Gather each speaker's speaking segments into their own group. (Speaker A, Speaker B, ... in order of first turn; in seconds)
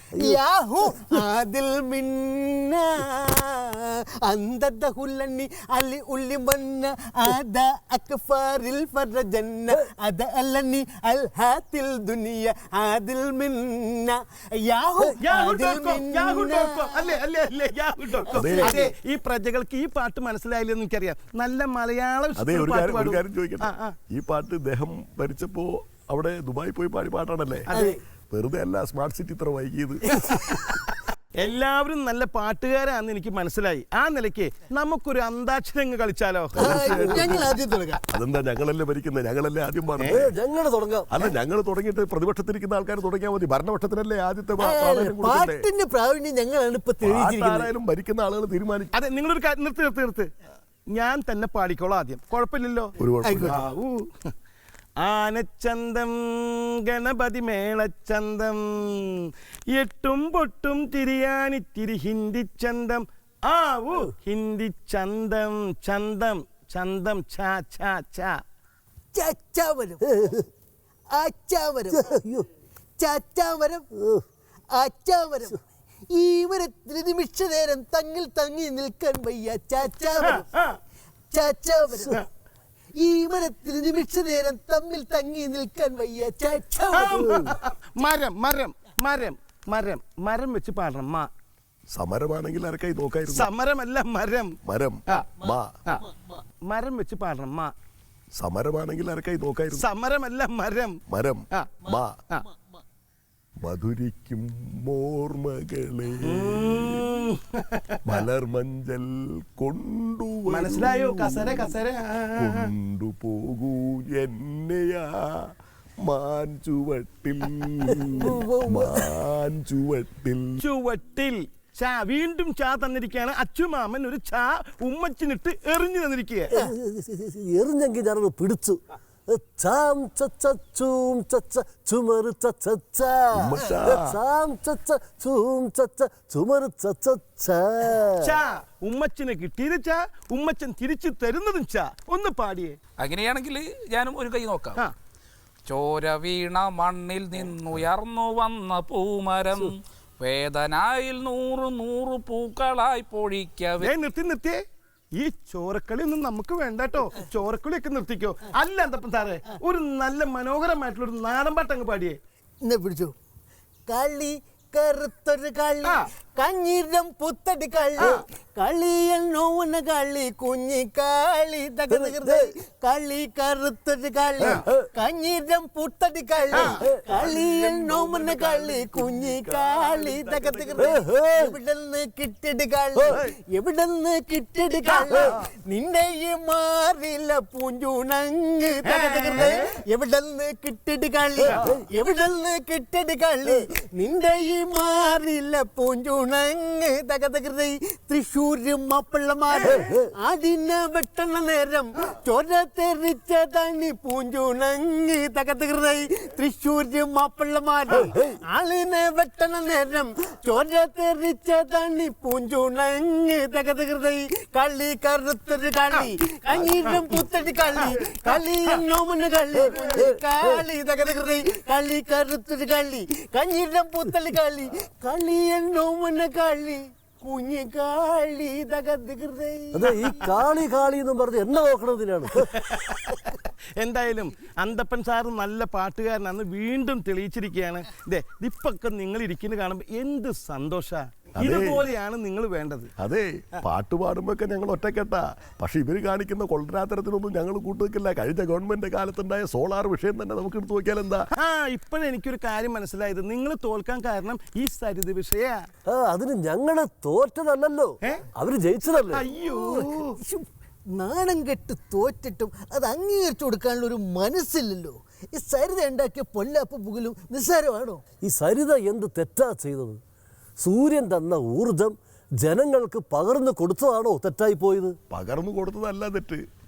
Speaker A: 0.1-17.1, 18.2-18.9, 27.7-28.0, 30.2-30.5, 36.6-38.0, 44.6-47.7, 53.2-53.6, 69.1-70.3, 71.1-72.1, 73.0-73.8, 74.7-75.6, 76.1-80.5, 81.3-82.2, 83.0-87.5, 118.2-119.0, 162.6-163.1, 163.8-230.3, 259.5-268.0
Speaker B: 15.2-23.9, 27.7-27.9, 30.4-30.7, 31.4-37.0, 40.0-40.2, 49.0-50.3, 51.0-52.9, 53.5-54.3, 55.0-68.4, 80.2-80.8, 86.9-91.3, 93.3-96.1, 96.7-97.7, 99.7-101.0, 101.5-102.5, 106.2-108.2, 110.5-112.7, 120.6-126.5, 138.2-142.8, 153.8-154.6, 155.1-162.2, 168.0-168.2, 176.5-176.8, 180.1-180.7, 184.9-185.1, 188.8-189.7, 232.5-242.9, 251.4-255.6, 259.1-260.2
Speaker C: 18.3-18.8, 22.4-27.7, 28.3-30.2, 36.6-37.5, 38.1-40.3, 41.1-45.6, 47.0-48.9, 53.0-53.6, 91.9-93.5, 94.7-95.9, 98.4-99.8, 101.1-102.2, 103.6-106.9, 108.1-111.7, 112.4-115.1, 116.0-120.6, 133.4-134.1, 177.1-179.9, 241.4-241.8, 243.0-251.2, 275.1-276.4
Speaker D: 40.1-41.1, 71.9-72.5, 74.0-74.2, 126.6-138.3, 171.9-172.5, 180.8-181.5, 191.5-191.7, 219.7-220.6, 229.7-232.5, 255.9-259.2, 268.2-270.0, 270.6-275.0
Speaker E: 143.0-144.8, 145.7-153.9